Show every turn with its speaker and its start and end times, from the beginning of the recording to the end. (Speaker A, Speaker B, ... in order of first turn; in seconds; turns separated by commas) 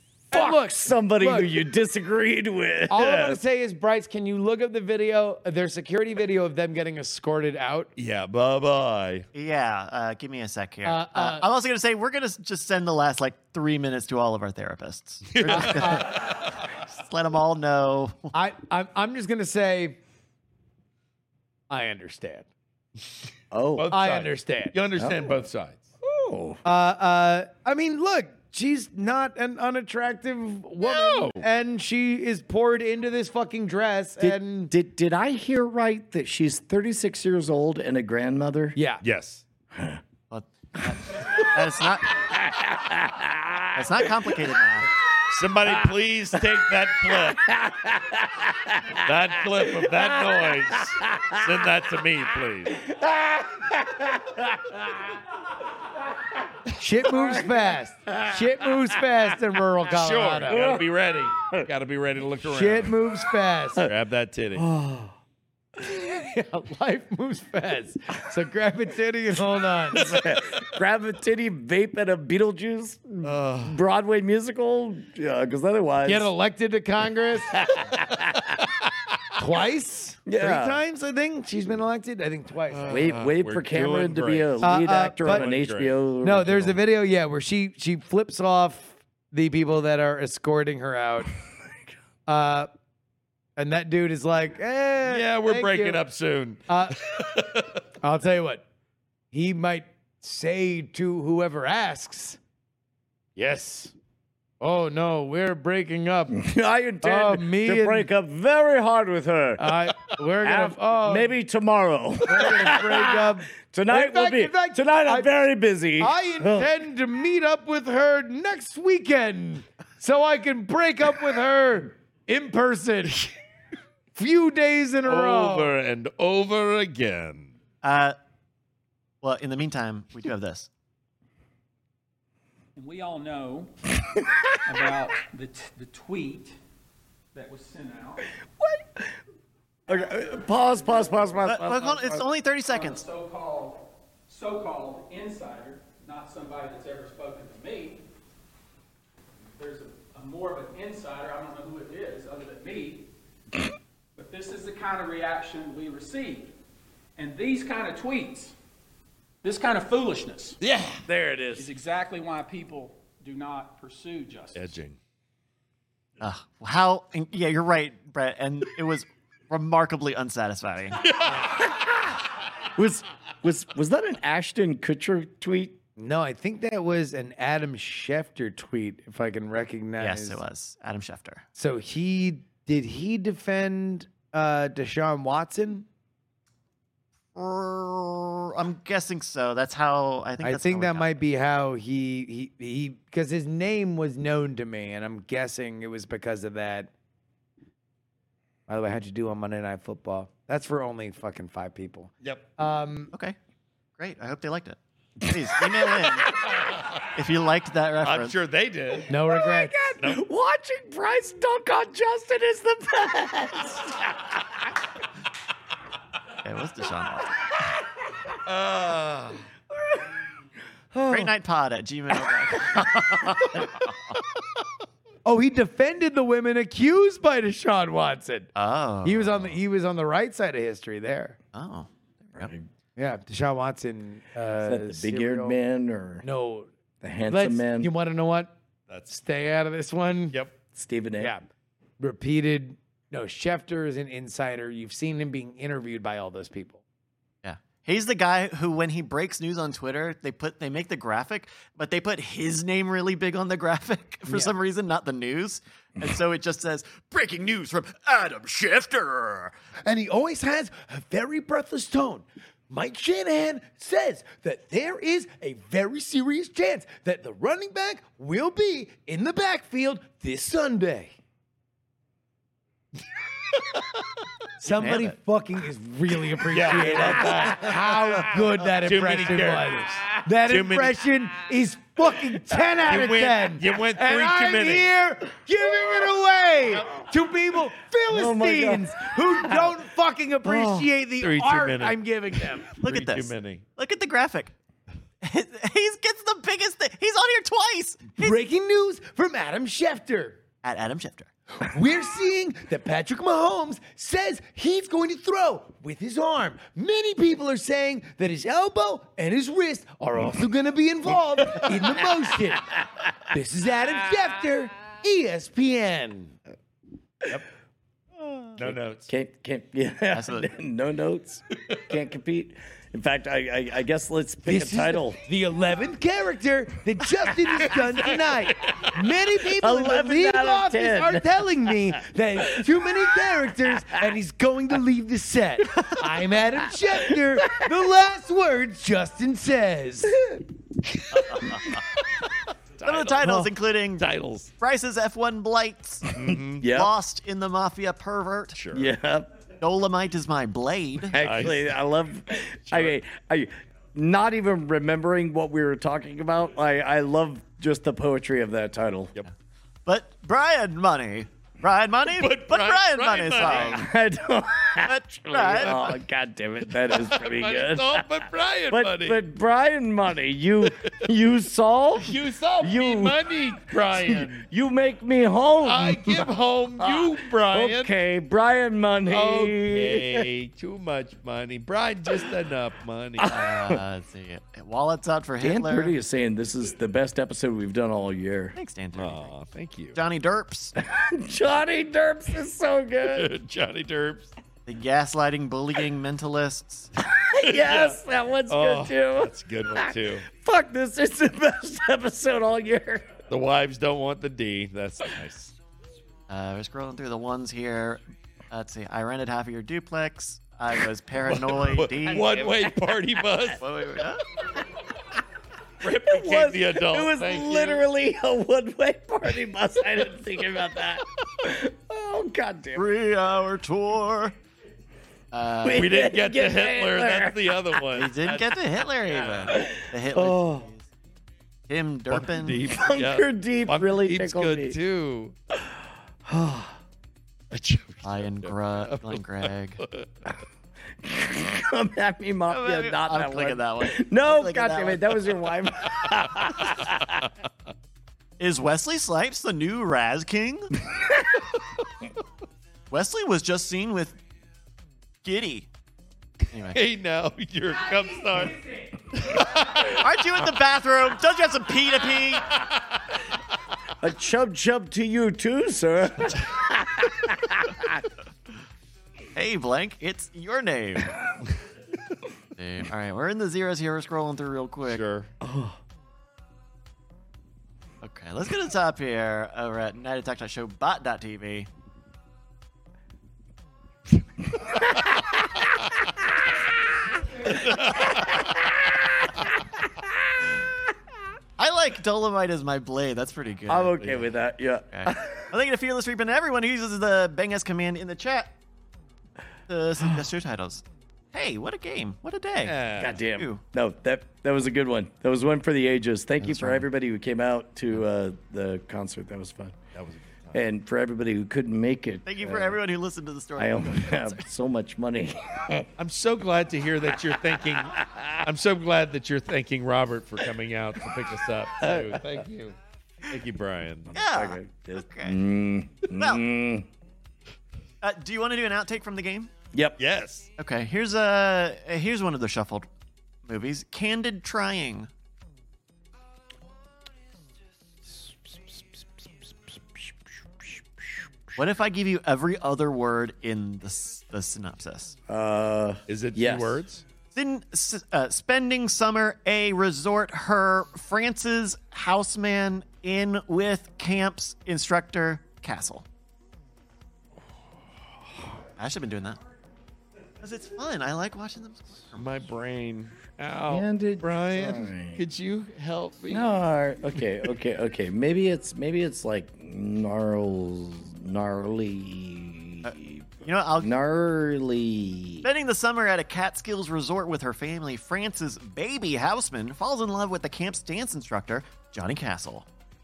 Speaker A: 0.3-3.4, Speaker B: 0.3-1.6, Speaker B: 2.9-7.9, Speaker C: 8.0-9.2, Speaker D: 9.3-18.3, Speaker B: 10.8-11.5, Speaker C: 15.3-16.3, Speaker B: 15.5-16.2, Speaker B: 18.3-20.0, Speaker B: 21.7-22.5, Speaker A: 23.5-23.9, Speaker C: 23.8-25.9, Speaker B: 23.9-24.8, Speaker A: 25.0-25.3, Speaker A: 26.0-26.6, Speaker B: 26.6-34.7, Speaker C: 30.8-31.4, Speaker A: 34.2-38.8, Speaker B: 38.8-39.0, Speaker C: 39.0-39.4, Speaker A: 39.7-40.0, Speaker D: 40.3-42.3, Speaker A: 42.2-44.3, Speaker D: 43.7-44.9, Speaker C: 45.3-47.5, Speaker A: 45.7-51.7, Speaker C: 49.0-52.8, Speaker A: 52.7-55.2, Speaker B: 56.8-60.8, Speaker A: 57.0-58.8, Speaker C: 59.9-63.0, Speaker A: 60.5-61.7, Speaker B: 62.4-63.9, Speaker C: 63.8-64.7, Speaker A: 64.5-65.2, Speaker B: 65.8-70.2, Speaker A: 70.0-76.3, Speaker C: 73.2-73.8, Speaker B: 76.0-77.8, Speaker A: 77.6-78.5, Speaker B: 79.4-83.1, Speaker A: 80.3-80.8, Speaker C: 82.7-86.0, Speaker A: 82.9-86.8, Speaker B: 84.6-85.5, Speaker B: 86.2-91.3, Speaker B: 92.3-92.7, Speaker B: 93.6-96.0, Speaker C: 95.1-97.8, Speaker B: 96.7-97.1, Speaker B: 98.0-98.7, Speaker B: 99.3-102.4, Speaker B: 103.4-103.9, Speaker B: 104.6-106.4, Speaker A: 106.3-109.7, Speaker B: 107.0-108.1, Speaker B: 109.6-111.4, Speaker A: 110.4-116.7, Speaker B: 112.3-115.3, Speaker B: 116.0-123.3, Speaker B: 124.2-125.8, Speaker C: 125.1-127.5, Speaker D: 127.8-128.2, Speaker D: 129.2-130.7, Speaker E: 132.8-133.7, Speaker E: 134.7-136.6, Speaker E: 137.3-138.3, Speaker A: 138.6-139.1, Speaker A: 139.9-142.2, Speaker E: 139.9-141.5, Speaker D: 141.4-143.0, Speaker E: 142.7-148.0, Speaker E: 149.6-153.1, Speaker E: 154.2-156.5, Speaker E: 157.2-158.6, Speaker E: 159.4-160.6, Speaker C: 160.6-161.0, Speaker A: 161.0-161.7, Speaker E: 161.6-164.8, Speaker C: 164.5-165.0, Speaker D: 166.2-171.1, Speaker C: 171.1-171.4, Speaker A: 172.8-175.8, Speaker B: 176.0-180.4, Speaker D: 180.0-181.4, Speaker B: 181.6-185.9, Speaker D: 187.3-191.1, Speaker B: 190.4-196.9, Speaker B: 198.7-203.1, Speaker D: 204.0-206.3, Speaker D: 207.1-208.4, Speaker C: 208.0-209.1, Speaker B: 209.1-210.0, Speaker A: 209.2-214.6, Speaker D: 216.4-217.5, Speaker C: 218.5-219.4, Speaker D: 221.1-223.8, Speaker B: 225.2-228.5, Speaker D: 228.6-229.6, Speaker B: 229.0-231.4, Speaker D: 231.5-232.5, Speaker A: 232.4-232.7, Speaker B: 233.0-235.6, Speaker A: 234.6-236.2, Speaker B: 236.2-236.7, Speaker A: 237.0-237.9, Speaker B: 237.3-238.5, Speaker C: 238.9-239.2, Speaker B: 239.1-240.4, Speaker A: 240.7-241.3, Speaker B: 241.2-241.5, Speaker B: 242.0-246.8, Speaker D: 247.4-259.5, Speaker B: 254.3-254.5, Speaker B: 259.9-271.1, Speaker B: 274.6-292.7, Speaker D: 274.8-275.1, Speaker C: 276.5-281.0, Speaker C: 282.8-284.9, Speaker A: 288.1-289.8, Speaker A: 290.4-290.9, Speaker C: 291.2-293.6, Speaker D: 292.8-294.5, Speaker D: 295.2-298.3, Speaker B: 298.2-300.4, Speaker D: 300.6-301.3, Speaker B: 301.6-316.4, Speaker C: 318.6-319.1, Speaker A: 318.6-325.2, Speaker D: 320.1-320.5, Speaker B: 324.4-340.2, Speaker A: 329.5-334.1, Speaker A: 336.9-337.7, Speaker A: 340.1-340.4, Speaker C: 342.8-343.5, Speaker D: 342.8-344.1, Speaker C: 344.0-344.5, Speaker D: 344.6-348.6, Speaker C: 346.1-346.6, Speaker A: 346.1-346.9, Speaker C: 348.5-348.9, Speaker A: 348.7-349.3, Speaker D: 349.6-351.2, Speaker A: 351.1-359.1, Speaker C: 351.2-351.8, Speaker D: 359.9-363.9, Speaker C: 362.1-363.8, Speaker A: 363.4-373.3, Speaker D: 364.9-365.9, Speaker C: 365.6-365.9, Speaker C: 366.8-369.2, Speaker C: 372.0-374.4, Speaker A: 373.9-380.3, Speaker C: 375.6-377.9, Speaker C: 379.1-383.4, Speaker A: 383.2-383.8, Speaker D: 383.3-385.9, Speaker A: 385.4-388.6, Speaker D: 388.6-389.3, Speaker C: 388.9-390.0, Speaker D: 389.9-390.8, Speaker A: 390.8-393.3, Speaker C: 393.1-394.3, Speaker D: 394.7-396.9, Speaker A: 397.0-403.2, Speaker C: 397.5-398.0, Speaker C: 398.5-400.3, Speaker C: 403.3-405.5, Speaker D: 406.3-412.5, Speaker C: 411.4-413.6, Speaker A: 412.1-412.9, Speaker D: 413.6-414.3, Speaker C: 415.8-417.8, Speaker A: 415.8-422.9, Speaker D: 422.8-424.4, Speaker D: 425.3-425.9, Speaker A: 425.6-427.9, Speaker C: 425.7-429.4, Speaker D: 427.9-430.9, Speaker A: 429.5-430.7, Speaker D: 431.7-432.6, Speaker C: 432.1-435.4, Speaker A: 432.7-434.8, Speaker A: 436.3-436.8, Speaker C: 437.5-439.2, Speaker D: 438.0-439.8, Speaker C: 439.8-440.1, Speaker A: 441.0-447.3, Speaker D: 442.5-445.2, Speaker D: 448.4-450.8, Speaker A: 450.9-451.4, Speaker D: 452.9-454.2, Speaker D: 455.2-455.7, Speaker D: 456.5-456.8, Speaker C: 456.7-460.0, Speaker D: 459.7-462.6, Speaker A: 464.0-467.9, Speaker D: 469.4-471.3, Speaker D: 472.6-475.0, Speaker C: 474.9-475.3, Speaker A: 475.4-475.8, Speaker D: 478.0-481.7, Speaker C: 487.7-488.1, Speaker D: 491.6-494.2, Speaker A: 493.7-495.5, Speaker D: 494.9-498.5, Speaker D: 499.7-503.6, Speaker C: 502.6-503.2, Speaker A: 503.0-509.8, Speaker D: 506.4-506.9, Speaker C: 509.9-510.6, Speaker A: 510.5-512.8, Speaker D: 512.2-514.5, Speaker A: 513.6-515.9, Speaker C: 516.0-522.8, Speaker A: 518.0-518.4, Speaker A: 521.8-522.4, Speaker C: 523.3-524.1, Speaker D: 524.1-525.4, Speaker A: 524.2-526.9, Speaker D: 526.2-526.5, Speaker D: 528.0-529.5, Speaker A: 529.7-530.0, Speaker C: 530.0-530.5, Speaker D: 530.6-532.9, Speaker D: 533.5-535.1, Speaker D: 541.5-545.2, Speaker A: 545.3-546.8, Speaker C: 546.1-547.0, Speaker D: 547.3-556.1, Speaker D: 558.8-559.4, Speaker D: 560.4-562.3, Speaker C: 562.1-566.5, Speaker A: 563.7-565.2, Speaker A: 566.3-573.3, Speaker D: 572.8-573.9, Speaker A: 573.8-575.5, Speaker D: 575.4-582.7